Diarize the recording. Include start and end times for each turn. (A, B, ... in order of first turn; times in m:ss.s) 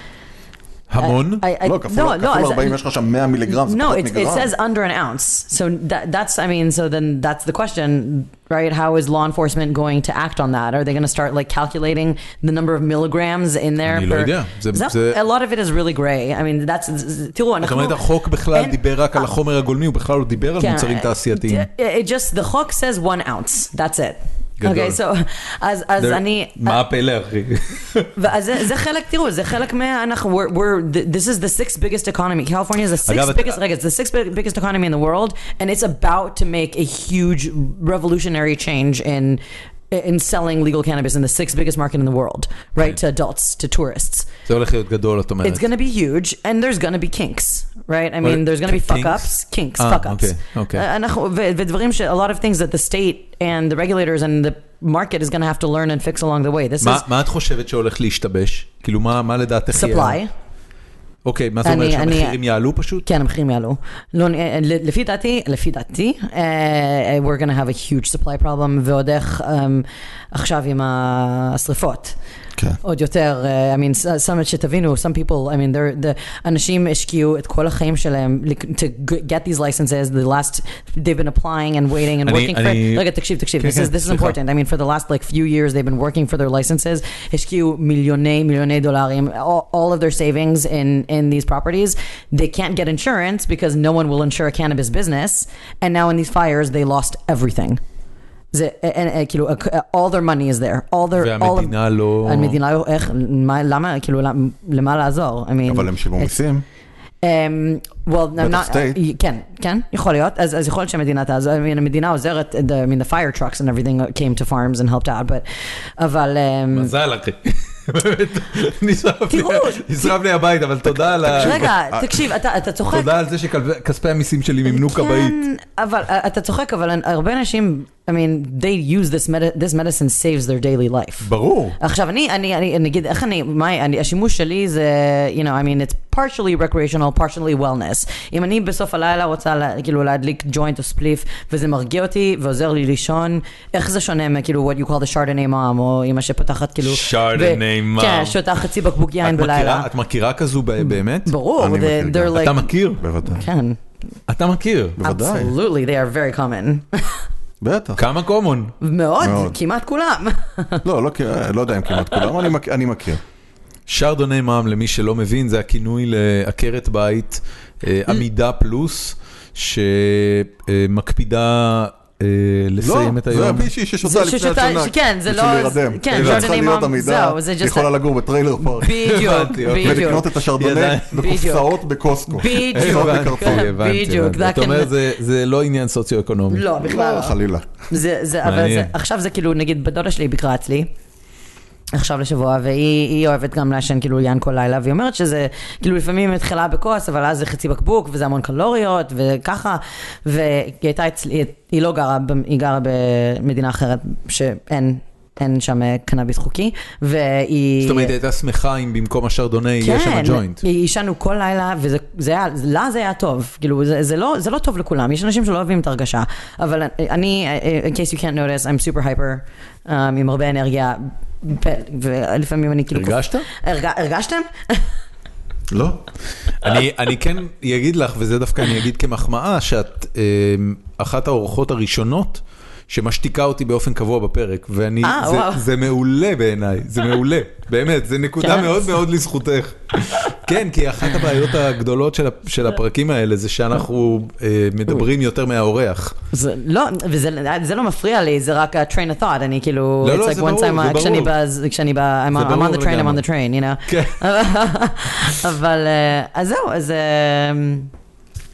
0:00.9-0:01.4 A
0:01.0-0:02.8 B
0:01.6-0:04.5 C
0:03.5-0:19.3 B
0:13.9-0:15.2 A
0:17.6-0:21.7 A
0:20.6-0:26.8 B
0:24.6-0:25.0 A
0:26.0-0:28.1 A
0:28.2-0:44.3 B
0:33.0-0:33.6 A
0:44.5-0:45.7 A
0:45.4-0:57.0 B
0:48.2-0:50.9 A
0:56.8-1:00.2 A
0:59.7-1:00.3 B
1:01.2-1:03.1 A
1:01.6-1:02.4 B
1:03.0-1:12.2 B
1:12.8-1:37.8 B
1:22.2-1:23.1 A
1:23.6-1:24.4 A
1:38.5-1:46.3 B
1:41.2-1:42.6 A
1:45.6-1:46.6 C
1:47.2-1:55.4 B
1:48.4-1:49.0 C
1:56.0-1:56.9 B
1:56.7-2:01.7 A
1:59.3-2:00.1 B
2:00.9-2:02.2 C
2:01.3-2:03.1 B
2:02.9-2:05.4 A
2:04.7-2:29.9 B
2:11.2-2:11.8 A
2:26.8-2:28.4 A
2:29.2-2:31.3 A
2:30.8-2:32.7 B
2:31.6-2:33.5 C
2:32.3-2:33.0 A
2:33.2-2:33.8 B
2:34.3-2:35.0 A
2:35.0-2:35.5 C
2:35.0-2:37.2 B
2:37.6-2:38.0 C
2:38.0-2:38.7 A
2:38.8-2:40.8 B
2:39.2-2:39.6 C
2:40.8-2:43.2 C
2:43.9-2:53.7 A
2:52.8-2:59.1 C
2:54.0-2:58.0 B
2:56.1-2:56.5 A
2:58.6-3:00.3 B
2:58.9-3:01.3 A
2:59.7-3:03.8 C
3:01.2-3:01.7 B
3:02.3-3:05.0 B
3:02.5-3:06.6 A
3:06.5-3:07.4 B
3:06.8-3:07.7 C
3:07.9-3:10.9 B
3:08.4-3:08.9 A
3:11.9-3:28.1 B
3:27.8-3:30.6 A
3:29.8-3:44.9 B
3:42.9-3:43.5 A
3:45.7-3:46.0 C
3:46.6-4:06.2 A
3:55.0-3:55.6 B
3:58.4-3:59.0 B
4:06.3-4:17.9 B
4:10.0-4:11.3 A
4:12.3-4:13.2 A
4:13.9-4:14.2 A